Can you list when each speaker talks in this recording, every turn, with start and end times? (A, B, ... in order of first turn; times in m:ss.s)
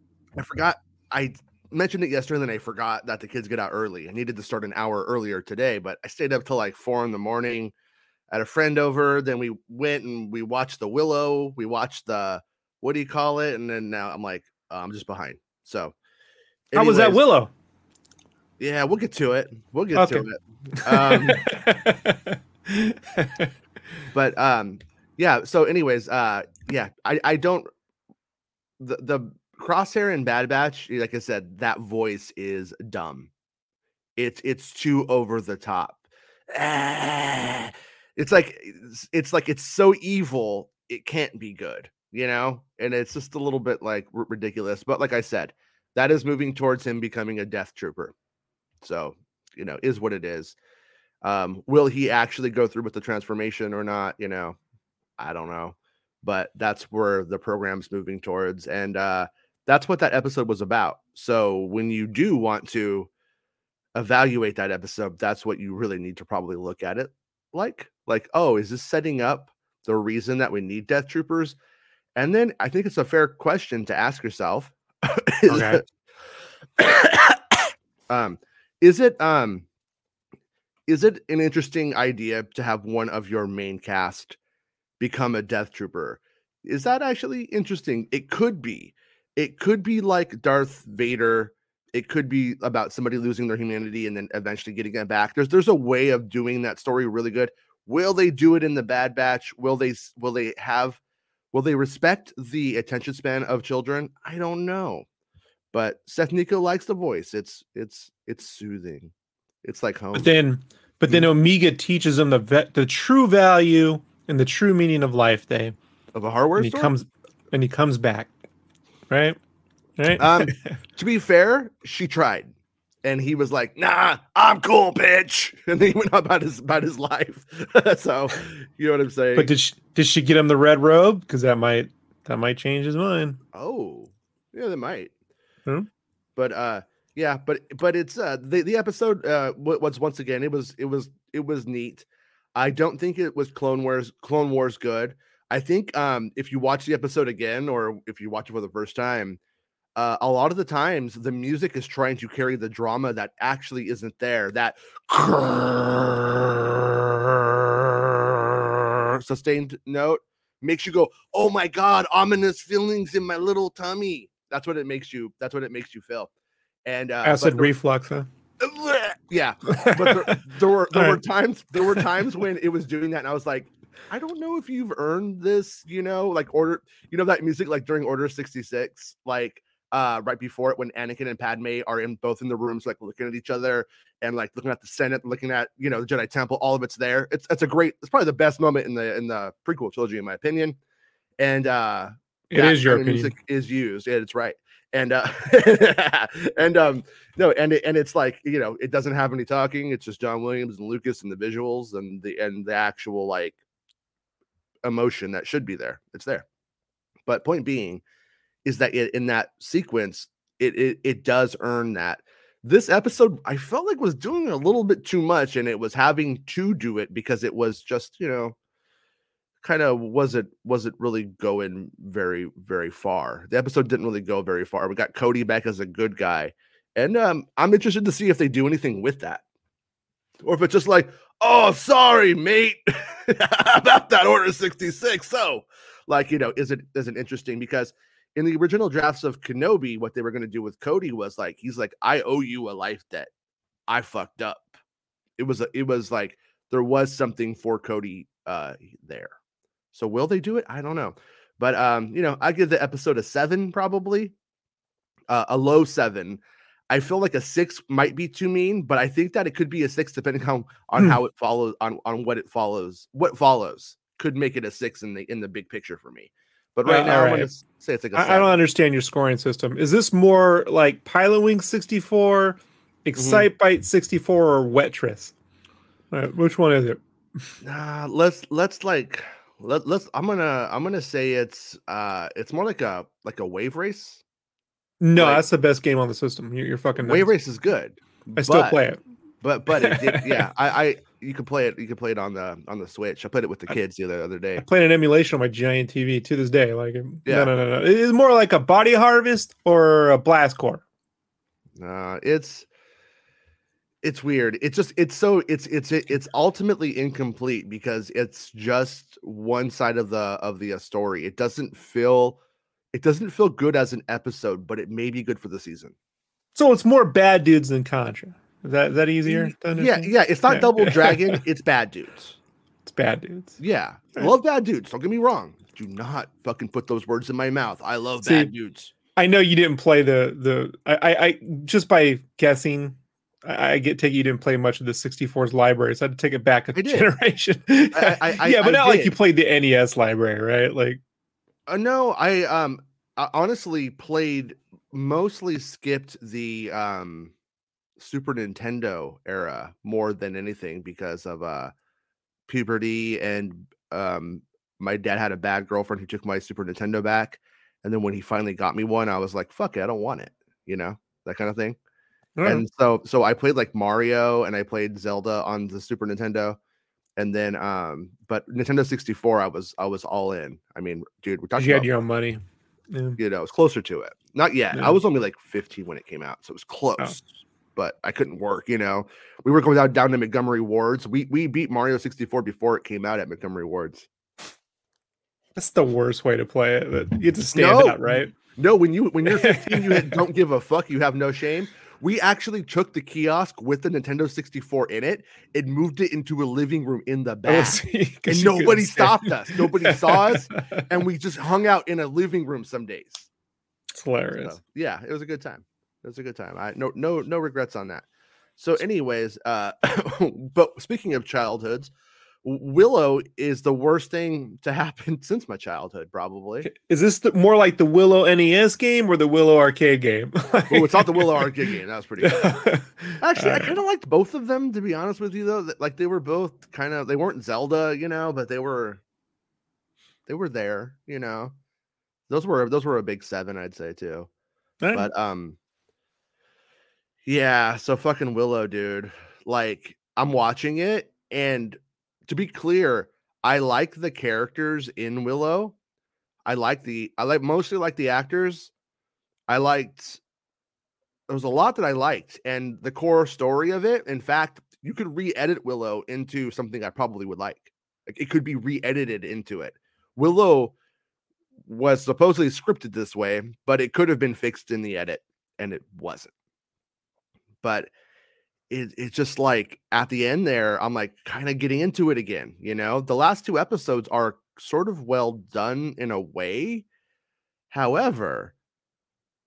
0:00.4-0:07.7 A
0:08.3-0:15.9 A
0:16.7-0:17.2 A
0:16.7-0:17.5 B
0:18.6-0:21.5 A
0:20.0-0:23.5 B
0:24.1-0:27.7 A
0:28.8-0:33.3 A
0:34.2-0:48.1 A
0:48.8-0:50.6 A
0:51.2-0:54.6 A
0:55.2-1:03.1 A
1:03.9-1:11.6 A
1:12.2-1:15.8 A
1:15.5-1:15.8 B
1:16.8-1:19.6 A
1:20.9-1:24.4 A
1:25.0-1:41.0 A
1:41.5-1:45.0 A
1:45.7-1:49.1 A
1:49.6-1:50.3 A
1:50.1-1:55.8 B
1:56.1-1:56.9 A
1:56.6-1:58.3 B
1:59.1-1:59.4 B
2:00.0-2:00.8 B
2:00.2-2:02.5 A
2:03.0-2:09.5 A
2:09.4-2:13.4 B
2:13.5-2:15.1 A
2:16.4-2:29.4 A
2:30.0-2:46.3 A
2:46.8-2:47.7 A
2:47.2-2:48.3 B
2:48.6-3:10.8 A
2:49.8-2:50.3 B
2:50.9-2:51.2 B
3:11.4-3:23.6 A
3:12.5-3:13.3 B
3:24.8-3:26.4 A
3:27.2-3:28.0 A
3:28.6-3:38.6 A
3:39.6-3:49.4 A
3:50.4-4:03.3 A
4:03.9-4:04.7 A
4:05.4-4:09.3 A
4:09.9-4:14.3 A
4:15.3-4:28.6 A
4:26.8-4:27.5 B
4:28.1-4:35.3 B
4:33.2-4:33.5 A
4:36.1-4:37.0 B
4:37.6-4:44.2 A
4:45.0-4:47.3 B
4:45.2-4:45.4 A
4:47.0-4:48.8 A
4:48.3-4:49.0 B
4:49.4-4:54.6 A
4:49.8-4:50.5 B
4:54.6-5:00.8 B
4:57.2-4:57.5 A
5:01.8-5:02.7 A
5:04.0-5:12.4 A
5:12.9-5:15.9 A
5:16.5-5:21.4 B
5:19.2-5:22.4 A
5:22.8-5:23.6 B
5:23.6-5:28.9 A
5:28.2-5:28.5 B
5:29.2-5:41.0 B
5:36.7-5:37.1 A
5:37.9-5:39.2 A
5:41.7-5:47.3 A
5:48.0-5:51.7 A
5:52.5-6:01.8 A
6:02.4-6:02.6 B
6:02.4-6:06.6 A
6:07.2-6:11.9 A
6:11.6-6:13.2 B
6:13.2-6:24.1 A
6:25.6-6:28.3 B
6:27.5-6:43.3 A
6:29.2-6:30.2 B
6:37.5-6:40.8 B
6:43.9-6:44.6 B
6:44.4-6:48.0 A
6:48.6-6:51.9 A
6:52.4-6:56.7 A
6:56.6-7:01.6 B
7:00.7-7:02.6 A
7:02.2-7:03.8 B
7:03.2-7:09.0 A
7:10.2-7:11.5 A
7:12.3-7:14.3 A
7:14.8-7:15.1 B
7:14.9-7:15.6 A
7:17.2-7:25.7 A
7:26.4-7:28.7 A
7:29.5-7:30.2 A
7:31.3-7:40.7 A
7:41.6-7:46.3 A
7:47.6-7:47.9 A
7:48.7-7:56.8 A
7:57.7-7:58.5 A